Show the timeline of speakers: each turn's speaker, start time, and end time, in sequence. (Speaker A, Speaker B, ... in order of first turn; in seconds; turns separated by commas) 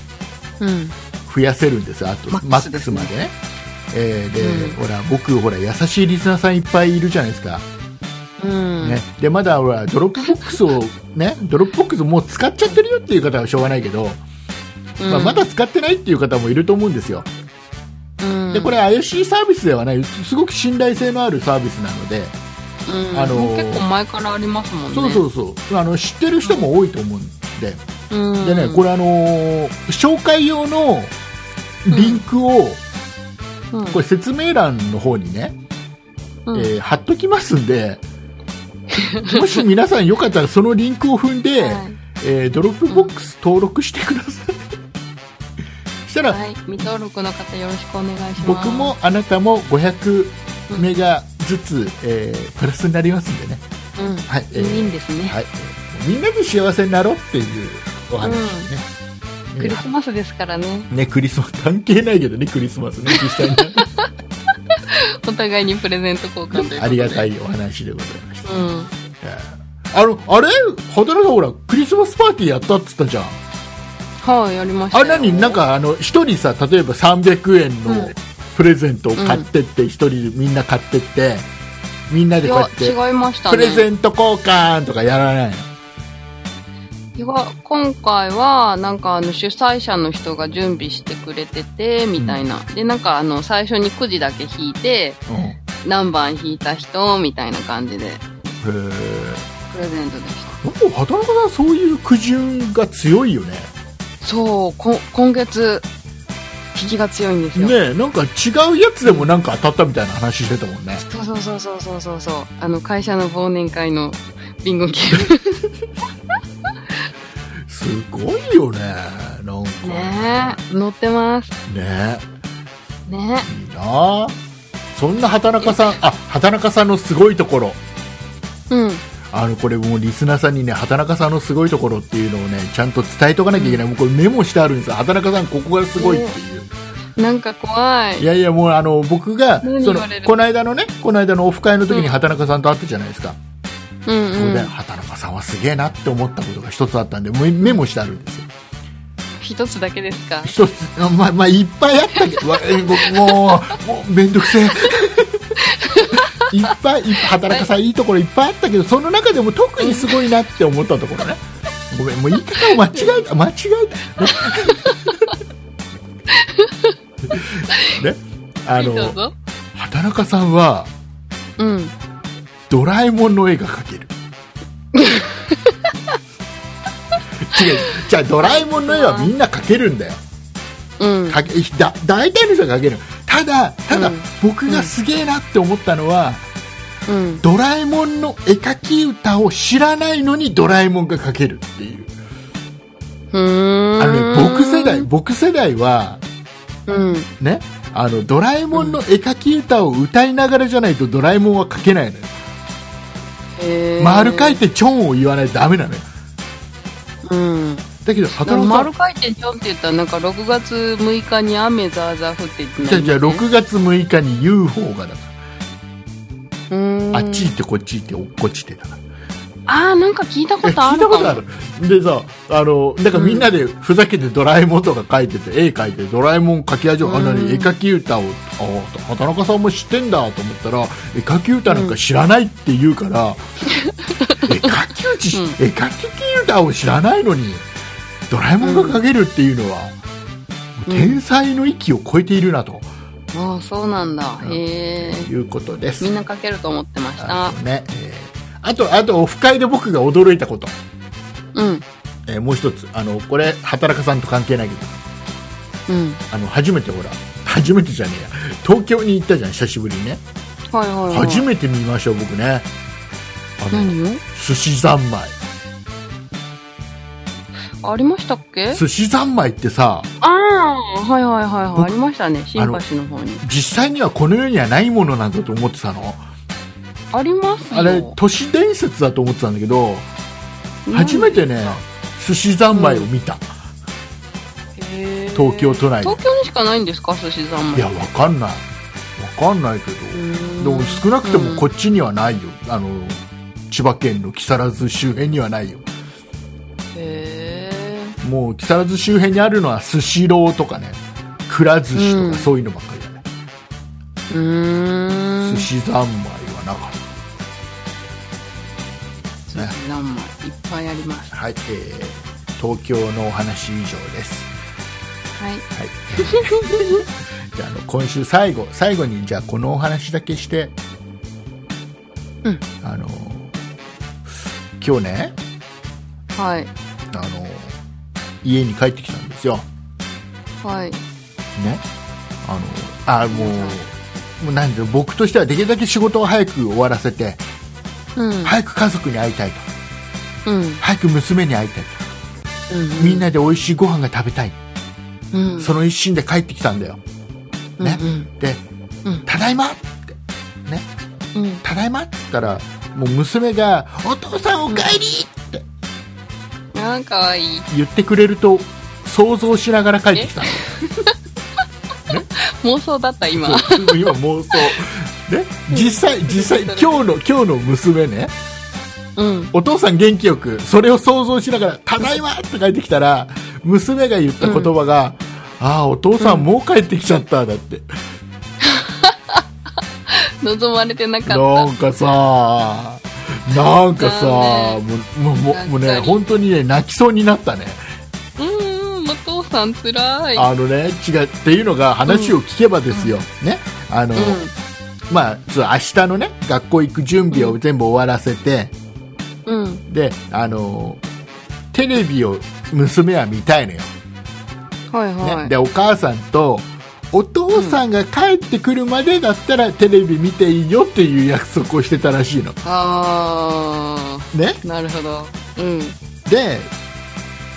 Speaker A: 0.6-0.9, Speaker B: 1.2-3.3, Speaker A: 2.3-3.1, Speaker B: 3.9-7.7, Speaker A: 4.4-4.8, Speaker A: 8.4-9.0, Speaker B: 8.8-14.2, Speaker A: 15.0-15.4, Speaker B: 15.1-17.3, Speaker A: 18.2-18.8, Speaker B: 18.5-22.3, Speaker A: 22.9-25.2, Speaker B: 23.1-23.9, Speaker B: 24.9-27.8, Speaker A: 28.1-28.8, Speaker B: 28.4-31.1, Speaker B: 31.8-32.8, Speaker A: 31.9-32.2, Speaker A: 33.7-34.0, Speaker B: 33.9-35.5, Speaker B: 36.5-38.0, Speaker A: 38.9-39.6, Speaker B: 39.3-44.6, Speaker A: 41.6-42.0, Speaker B: 46.0-46.4, Speaker A: 46.3-48.9, Speaker B: 48.4-53.6, Speaker A: 54.0-55.4, Speaker B: 54.3-58.9, Speaker A: 58.2-58.7, Speaker B: 59.5-59.8, Speaker A: 59.6-60.9, Speaker B: 60.9-63.9, Speaker A: 63.1-64.1, Speaker A: 64.7-67.3, Speaker B: 66.5-68.6, Speaker A: 68.4-68.9, Speaker B: 69.2-73.4, Speaker A: 74.2-75.6, Speaker B: 74.9-81.5, Speaker A: 77.9-78.1, Speaker A: 79.2-79.4, Speaker B: 82.1-85.7, Speaker A: 82.4-83.9, Speaker A: 87.2-95.2, Speaker B: 92.2-92.4, Speaker B: 95.3-95.6, Speaker A: 95.8-98.2, Speaker B: 98.6-99.5, Speaker A: 99.7-100.5, Speaker B: 100.6-103.7, Speaker A: 104.2-105.9, Speaker A: 106.7-107.8, Speaker B: 107.5-111.0, Speaker A: 109.0-109.3, Speaker A: 111.0-115.7, Speaker B: 117.7-120.6, Speaker A: 119.8-121.6, Speaker B: 121.7-122.2, Speaker A: 123.1-123.5, Speaker B: 123.4-124.3, Speaker B: 124.9-127.8, Speaker A: 128.7-129.0, Speaker B: 129.3-136.7, Speaker A: 133.5-133.8, Speaker A: 136.0-136.3, Speaker A: 137.2-138.3, Speaker B: 138.2-143.4, Speaker A: 139.6-140.3, Speaker A: 141.9-142.2, Speaker A: 144.1-144.7, Speaker B: 144.3-148.5, Speaker A: 149.4-150.6, Speaker B: 150.4-165.2, Speaker A: 152.2-153.6, Speaker A: 155.6-156.5, Speaker A: 157.2-157.7, Speaker A: 159.8-160.2, Speaker A: 162.7-163.2, Speaker A: 164.2-165.1, Speaker A: 166.3-166.9, Speaker B: 167.3-169.2, Speaker A: 167.7-168.0, Speaker A: 168.8-169.3, Speaker B: 169.7-170.9, Speaker A: 171.6-171.9, Speaker B: 172.7-174.1, Speaker A: 174.9-176.1, Speaker B: 177.4-180.2, Speaker A: 177.5-179.3, Speaker A: 181.0-181.4, Speaker B: 181.3-186.4, Speaker A: 183.9-184.9, Speaker A: 187.1-187.4, Speaker B: 187.4-192.1, Speaker A: 193.3-195.1, Speaker B: 194.0-196.2, Speaker A: 196.9-197.3, Speaker B: 197.4-202.3, Speaker A: 198.7-199.0, Speaker A: 203.6-204.6, Speaker B: 204.0-206.1, Speaker A: 207.2-213.4, Speaker B: 208.0-208.9, Speaker B: 212.8-215.3, Speaker A: 216.7-217.5, Speaker B: 217.1-219.0, Speaker A: 219.7-221.4, Speaker B: 220.6-233.4, Speaker A: 223.1-223.5, Speaker A: 227.0-227.7, Speaker A: 231.7-232.0, Speaker A: 233.7-234.7, Speaker B: 234.4-237.7, Speaker A: 235.3-235.6, Speaker B: 238.3-240.0, Speaker A: 238.6-239.0, Speaker B: 240.8-242.9, Speaker A: 240.9-241.2, Speaker A: 243.3-245.3, Speaker B: 244.4-246.1, Speaker A: 246.0-247.5, Speaker B: 247.2-250.7, Speaker A: 251.5-251.8, Speaker B: 252.3-255.0, Speaker A: 255.9-256.2, Speaker B: 256.3-260.2, Speaker A: 260.7-261.5, Speaker B: 261.1-262.7, Speaker B: 263.6-265.3, Speaker A: 263.7-264.2, Speaker A: 267.8-268.8, Speaker B: 268.7-270.1, Speaker A: 270.2-273.4, Speaker B: 272.6-272.8, Speaker B: 273.4-276.2, Speaker A: 277.1-278.1, Speaker B: 277.7-280.1, Speaker A: 280.9-281.8, Speaker B: 280.9-283.5, Speaker A: 282.7-283.1, Speaker A: 284.8-288.1, Speaker B: 285.3-286.2, Speaker B: 287.7-295.8, Speaker A: 290.1-291.6, Speaker A: 296.9-298.1, Speaker B: 298.2-303.2, Speaker A: 301.9-302.5, Speaker A: 304.3-305.7, Speaker B: 305.4-307.1, Speaker A: 309.5-311.3, Speaker B: 311.3-314.5, Speaker A: 315.4-315.6, Speaker B: 315.7-320.7, Speaker A: 316.1-317.0, Speaker B: 322.8-323.5, Speaker B: 324.8-325.4, Speaker A: 326.3-326.7, Speaker B: 327.1-327.8, Speaker B: 328.4-329.6, Speaker A: 330.6-331.0, Speaker B: 331.6-331.8, Speaker B: 332.4-337.4, Speaker A: 333.3-333.8, Speaker A: 338.1-338.5, Speaker B: 338.4-339.7, Speaker A: 340.4-340.8, Speaker B: 340.8-342.0, Speaker A: 342.7-343.2, Speaker B: 343.0-344.6, Speaker A: 345.3-345.7, Speaker B: 345.6-347.0, Speaker A: 347.8-348.3, Speaker B: 347.8-348.6, Speaker B: 349.2-350.9, Speaker A: 351.3-351.6, Speaker B: 351.6-355.6, Speaker A: 354.7-355.0, Speaker A: 356.7-357.7, Speaker B: 357.7-361.0, Speaker A: 360.1-361.1, Speaker A: 362.4-364.8, Speaker B: 363.3-368.3, Speaker A: 365.7-367.1, Speaker A: 369.1-369.5, Speaker B: 369.5-377.9, Speaker A: 374.4-374.7, Speaker A: 376.2-376.5, Speaker A: 378.6-379.4, Speaker A: 380.1-381.7, Speaker B: 381.2-387.8, Speaker A: 383.9-384.8, Speaker A: 385.4-386.2, Speaker A: 388.4-390.5, Speaker B: 390.3-394.4, Speaker A: 392.1-392.4, Speaker A: 394.1-394.5, Speaker B: 395.1-398.7, Speaker A: 397.3-397.6, Speaker A: 399.4-399.8, Speaker B: 399.9-401.0, Speaker B: 401.7-403.9, Speaker A: 404.9-405.5, Speaker B: 405.2-412.6, Speaker A: 407.5-407.8, Speaker A: 412.6-415.9, Speaker B: 414.3-414.6, Speaker B: 416.2-416.7